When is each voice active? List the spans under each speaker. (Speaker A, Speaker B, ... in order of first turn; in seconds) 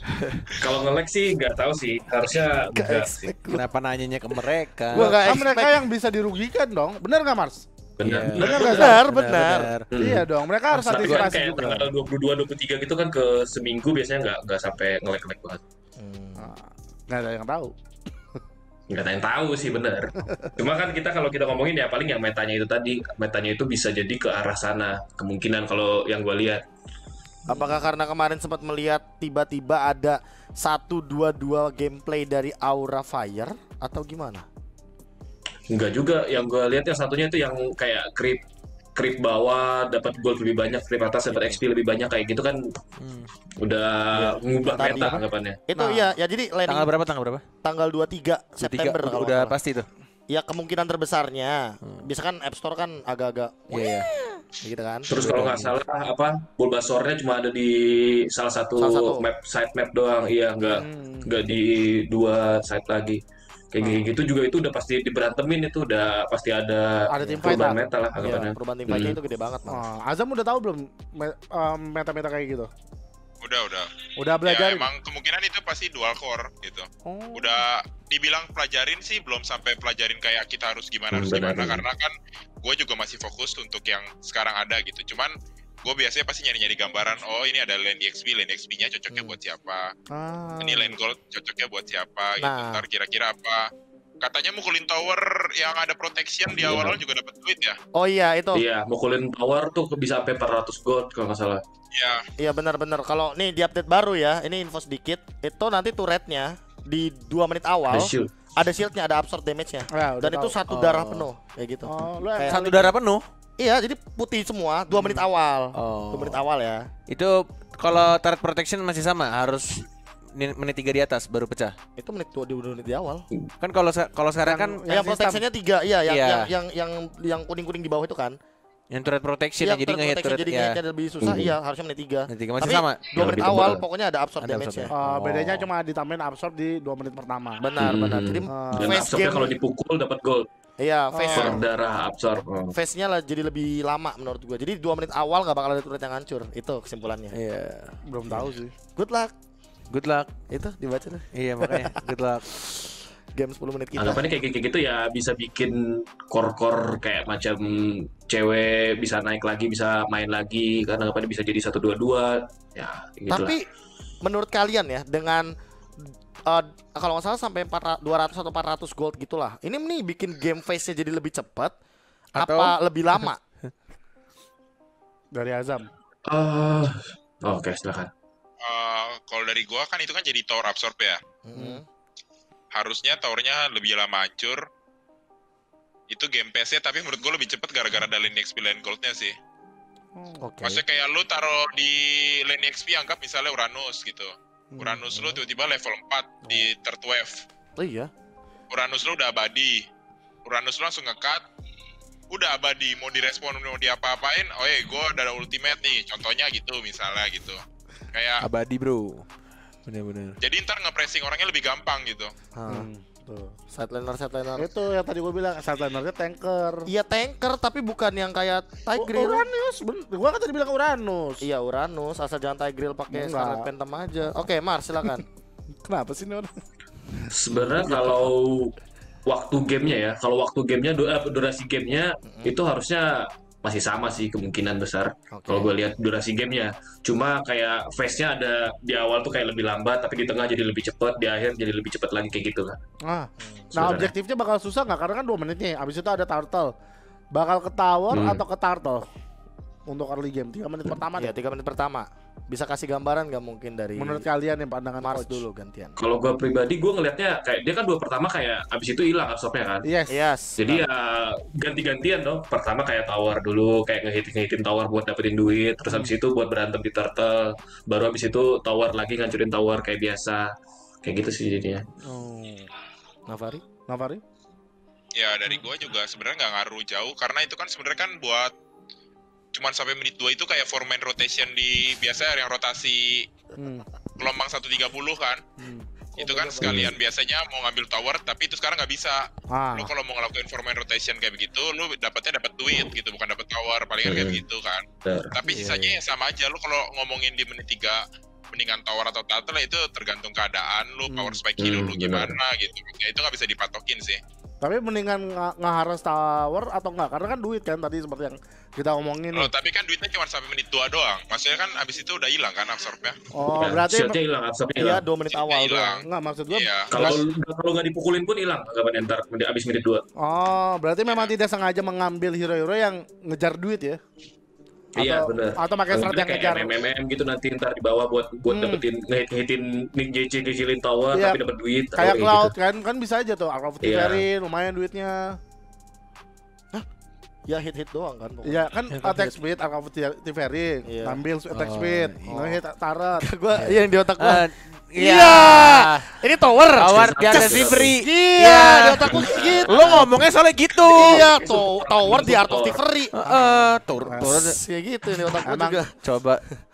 Speaker A: 0.6-3.1, 8.0-9.0, 9.9-15.6, 18.9-26.6, 35.7-38.4, 38.9-42.6, 43.6-45.6, 55.1-69.2, 81.1-81.8, 96.5-97.0, 98.5-101.6, 107.9-108.3, 131.2-131.5, 132.7-133.8, 137.8-140.5, 141.3-142.7, 154.0-163.5, 176.3-178.1, 227.3-242.8, 243.8-244.1, 248.1-248.4, 256.0-259.9, 260.6-270.5, 271.0-271.8, 286.6-286.9, 294.0-294.4, 295.0-295.4, 301.6-302.4, 313.6-315.0, 316.9-320.0, 324.9-332.5, 333.8-334.2, 346.9-348.0, 349.0-350.1, 350.9-352.8
Speaker B: 2.7-3.6, 4.9-5.8, 8.5-9.7, 16.0-16.5, 27.5-34.5, 44.2-46.9, 47.6-49.5, 50.3-55.1, 58.8-59.3, 67.2-67.5, 68.2-69.8, 89.1-89.3, 92.4-92.8, 97.9-98.6, 102.4-112.6, 113.6-116.9, 122.0-123.3, 124.9-128.4, 129.6-134.9, 137.6-139.5, 140.8-141.6, 142.7-147.4, 148.3-149.3, 150.5-152.0, 152.6-154.2, 163.3-163.6, 164.2-171.7, 172.3-173.4, 181.4-181.8, 190.4-190.8, 195.1-195.4, 197.8-198.1, 212.5-212.9, 213.7-214.7, 216.9-219.4, 221.4-225.2, 232.2-232.5, 235.3-235.7, 243.4-243.7, 251.1-254.2, 255.0-256.0, 260.1-260.9, 273.3-273.6, 314.8-316.0, 337.5-338.6, 340.9-341.2, 343.2-344.4, 345.0-350.1, 350.9-355.9
Speaker C: 3.5-5.3, 8.0-10.0, 11.0-11.2, 43.0-43.3, 44.9-45.2, 46.6-47.4, 48.6-49.9, 51.8-52.1, 53.7-54.1, 55.1-55.7, 110.7-111.3, 112.5-113.3, 115.7-116.4, 117.1-121.8, 123.6-124.8, 126.0-126.5, 128.9-130.8, 132.3-133.1, 134.4-135.7, 147.3-148.0, 149.9-150.3, 151.3-152.5, 172.3-173.7, 208.4-209.3, 209.8-210.4, 338.9-339.2, 341.5-342.6, 343.5-346.1, 346.8-349.1, 349.6-351.3, 353.1-354.6, 356.0-356.4
Speaker D: 4.9-7.7, 8.4-8.9, 10.0-11.9, 16.4-17.7, 45.8-46.1, 60.7-61.3, 67.1-68.4, 69.7-72.7, 74.2-74.9, 77.0-77.5, 90.1-90.9, 109.9-110.6, 111.8-113.0, 114.9-115.2, 124.4-125.4, 134.9-137.7, 138.5-139.0, 141.1-141.6, 148.1-148.7, 175.3-175.9, 181.5-181.8, 190.2-190.4, 194.7-195.1, 212.7-213.5, 214.6-216.9, 218.9-221.4, 223.1-223.7, 225.8-226.5, 227.8-228.2, 243.1-246.7, 247.3-249.0, 249.9-251.3, 253.9-255.4, 259.8-260.1, 265.9-266.1, 272.0-272.7, 273.9-274.2, 283.6-283.9, 285.6-286.8, 289.5-289.9, 295.4-296.0, 301.1-301.4, 304.6-309.5, 313.3-314.2, 316.0-317.2, 320.2-324.0, 324.9-326.7, 328.5-328.8, 331.1-331.4, 331.9-335.4, 338.4-343.2, 354.0-354.3, 355.4-355.8
Speaker E: 73.4-73.9, 74.4-82.1, 82.6-85.3, 85.8-89.9, 90.6-93.7, 94.2-97.8, 101.9-102.2, 178.6-181.2, 182.7-184.6, 186.1-189.3, 190.6-197.4, 198.7-199.8, 200.4-201.4, 202.3-207.6, 208.1-208.4, 210.4-212.3, 275.1-278.5, 279.5-283.3, 284.2-285.4, 286.2-304.2, 309.3-313.2, 315.3-317.0